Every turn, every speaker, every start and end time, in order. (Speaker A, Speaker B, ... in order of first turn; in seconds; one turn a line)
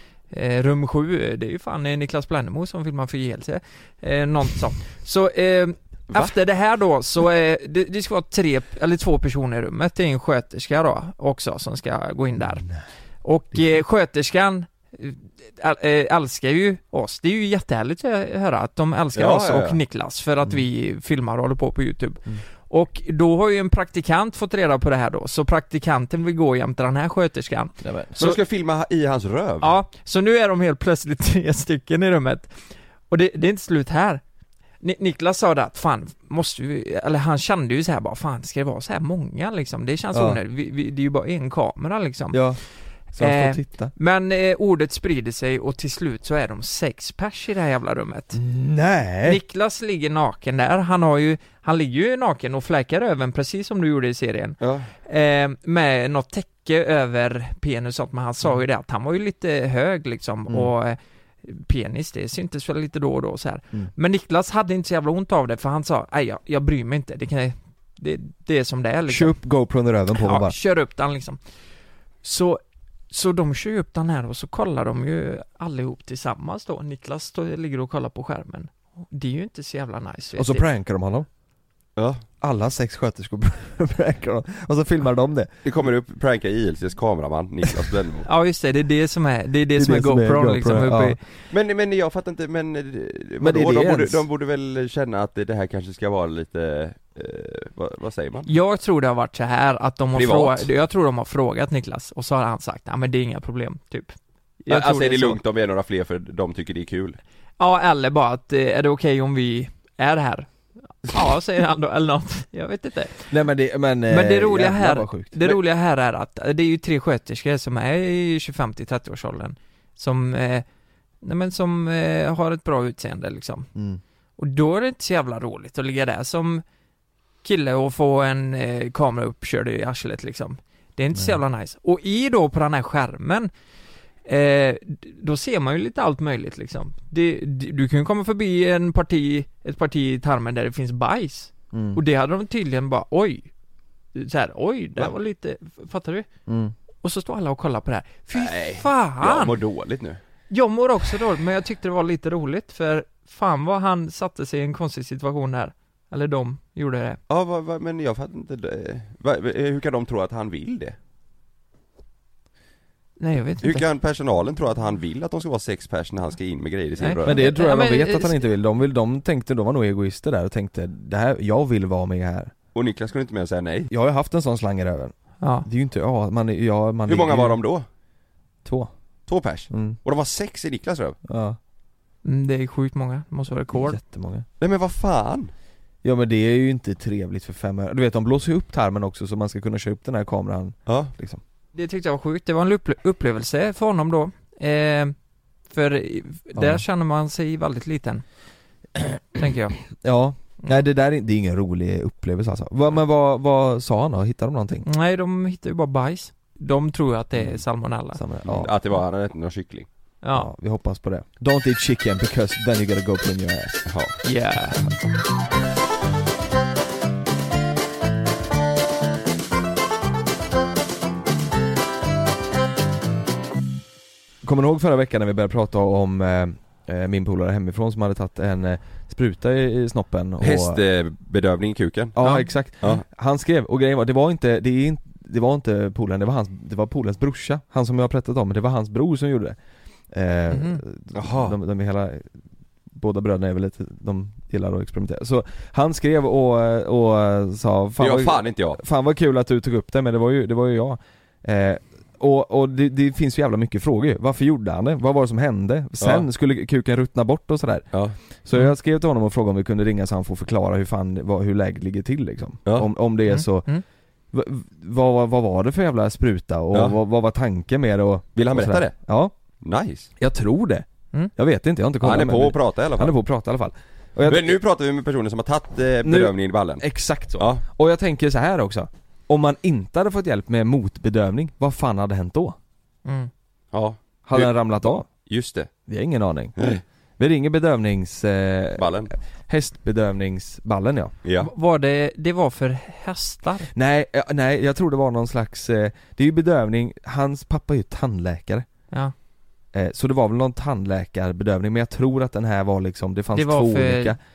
Speaker A: 0.3-28.4
Speaker B: 19.1-19.8
Speaker C: 27.8-28.3
Speaker B: 28.2-29.7
Speaker A: 29.6-34.2
Speaker A: 34.8-42.6
Speaker C: 40.1-40.4
Speaker C: 42.3-42.6
Speaker C: 43.1-43.9
Speaker A: 43.2-48.4
Speaker C: 48.3-49.4
Speaker A: 49.2-69.4
Speaker B: 54.6-54.9
Speaker C: 69.1-70.5
Speaker A: 70.1-71.4
Speaker A: 72.2-80.6
Speaker C: 80.3-81.3
Speaker B: 82.0-82.2
Speaker C: 82.4-85.5
Speaker B: 85.6-88.3
Speaker A: 88.3-91.2
Speaker C: 89.7-91.2
Speaker B: 91.5-98.5
Speaker C: 93.4-94.2
Speaker A: 98.5-105.4
Speaker B: 100.1-100.7
Speaker B: 104.7-107.2
Speaker A: 107.6-110.5
Speaker A: 111.0-113.3
Speaker C: 113.3-115.6
Speaker A: 114.1-120.6
Speaker A: 121.2-123.7
Speaker C: 123.7-124.0
Speaker A: 124.4-126.6
Speaker A: 127.4-133.5
Speaker A: 134.2-143.5
Speaker C: 141.7-142.0
Speaker A: 144.1-146.2
Speaker C: 146.5-146.7
Speaker A: 147.0-149.6
Speaker B: 148.3-150.2
Speaker A: 150.5-157.2
Speaker B: 157.3-160.9
Speaker A: 163.2-163.8
Speaker B: 163.6-167.4
Speaker A: 167.0-168.4
Speaker C: 167.2-172.5
Speaker B: 172.7-173.9
Speaker C: 173.9-177.6
Speaker A: 175.4-175.7
Speaker B: 177.1-177.8
Speaker C: 178.6-178.9
Speaker B: 179.3-181.2
Speaker C: 179.7-180.0
Speaker C: 181.2-181.6
Speaker A: 182.2-184.0
Speaker C: 183.7-184.4
Speaker B: 184.6-185.5
Speaker C: 186.0-191.4
Speaker B: 190.9-191.1
Speaker A: 191.7-195.1
Speaker A: 195.7-198.2
Speaker C: 196.6-196.8
Speaker A: 199.3-199.8
Speaker C: 200.0-204.8
Speaker A: 204.8-208.2
Speaker C: 208.1-208.7
Speaker B: 208.4-209.9
Speaker A: 210.2-210.5
Speaker C: 210.3-213.8
Speaker B: 213.9-214.2
Speaker A: 214.2-214.8
Speaker C: 224.4-230.8
Speaker B: 230.4-232.2
Speaker C: 232.1-239.6
Speaker A: 232.2-232.5
Speaker C: 240.1-242.3
Speaker A: 240.5-240.8
Speaker B: 241.1-241.6
Speaker C: 242.9-263.7
Speaker B: 248.0-248.8
Speaker B: 256.0-256.2
Speaker A: 263.2-263.8
Speaker C: 264.3-269.3
Speaker B: 268.3-268.9
Speaker B: 269.6-270.1
Speaker C: 270.2-274.6
Speaker B: 272.0-273.1
Speaker B: 274.2-276.8
Speaker C: 276.0-282.6
Speaker B: 277.4-277.6
Speaker A: 283.0-283.3
Speaker B: 283.7-285.7
Speaker C: 284.2-285.1
Speaker C: 285.9-291.1
Speaker B: 286.6-286.8
Speaker B: 288.8-289.1
Speaker B: 291.2-291.5
Speaker A: 291.4-293.7
Speaker C: 293.7-298.7
Speaker C: 299.7-304.2
Speaker A: 303.3-304.2